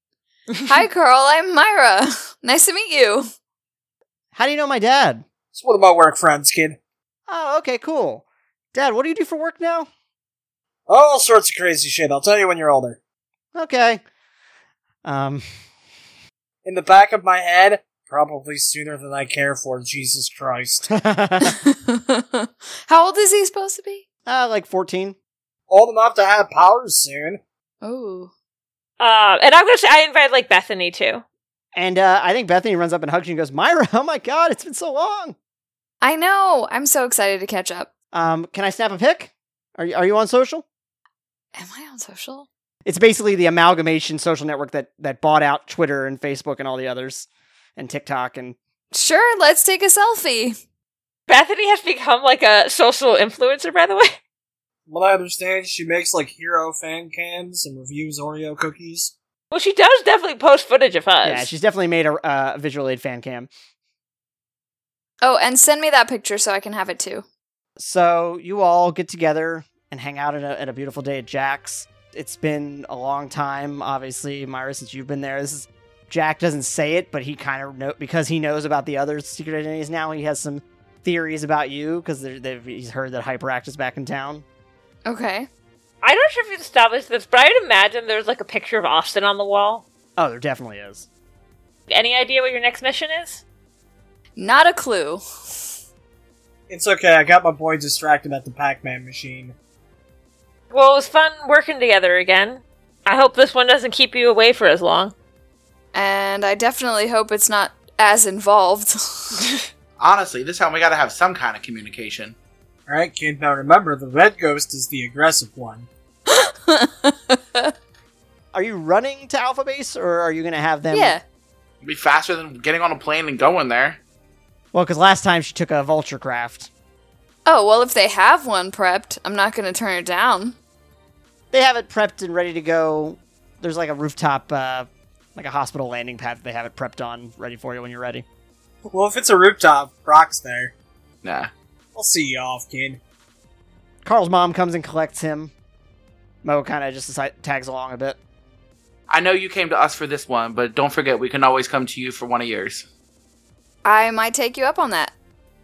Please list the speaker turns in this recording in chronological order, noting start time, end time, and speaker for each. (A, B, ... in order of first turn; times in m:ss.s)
0:00.6-0:03.3 A
0:04.3-0:05.2 B
0:05.5-0:06.8 C
0:07.3-0:09.9 B
0:10.9-0:13.0 C
0:13.5-0:14.0 B
0:15.0-0:15.4 B
0:16.6-0:20.9 C
0:20.9-0:21.5 B
0:21.4-0:24.0 A
0:24.2-0:25.2 B
0:25.7-0:27.4 C
0:27.8-0:28.3 A
0:29.0-0:31.2 D
0:31.7-0:35.4 B
0:36.0-0:37.9 A
0:38.1-0:40.6 B
0:41.5-0:42.5 A
0:42.8-0:48.6 B
0:48.9-0:50.6 A
0:51.3-0:54.2 D
0:54.9-0:59.1 C
0:59.5-1:01.5 D
1:01.2-1:03.5 B
1:05.2-1:07.2 A
1:07.8-1:24.4 B
1:25.0-1:25.5 A
1:26.0-1:29.8 D
1:30.2-1:31.1 B
1:31.9-1:33.4 D
1:34.4-1:35.2 A
1:36.7-1:39.5 C
1:40.7-1:45.1 D
1:45.9-1:49.4 A
1:50.0-1:52.4 E
1:52.9-1:55.9 C
1:56.3-1:57.7 A
1:58.5-2:01.2 B
2:00.9-2:01.2 A
2:01.8-2:04.0 E
2:04.7-2:06.7 B
2:07.4-2:10.6 A
2:11.5-2:18.2 B
2:18.9-2:20.7 C
2:21.2-2:21.5 E
2:21.9-2:23.0 C
2:24.0-2:25.5 B
2:26.4-2:28.2 B
2:29.1-2:32.8 E
2:33.8-2:35.1 A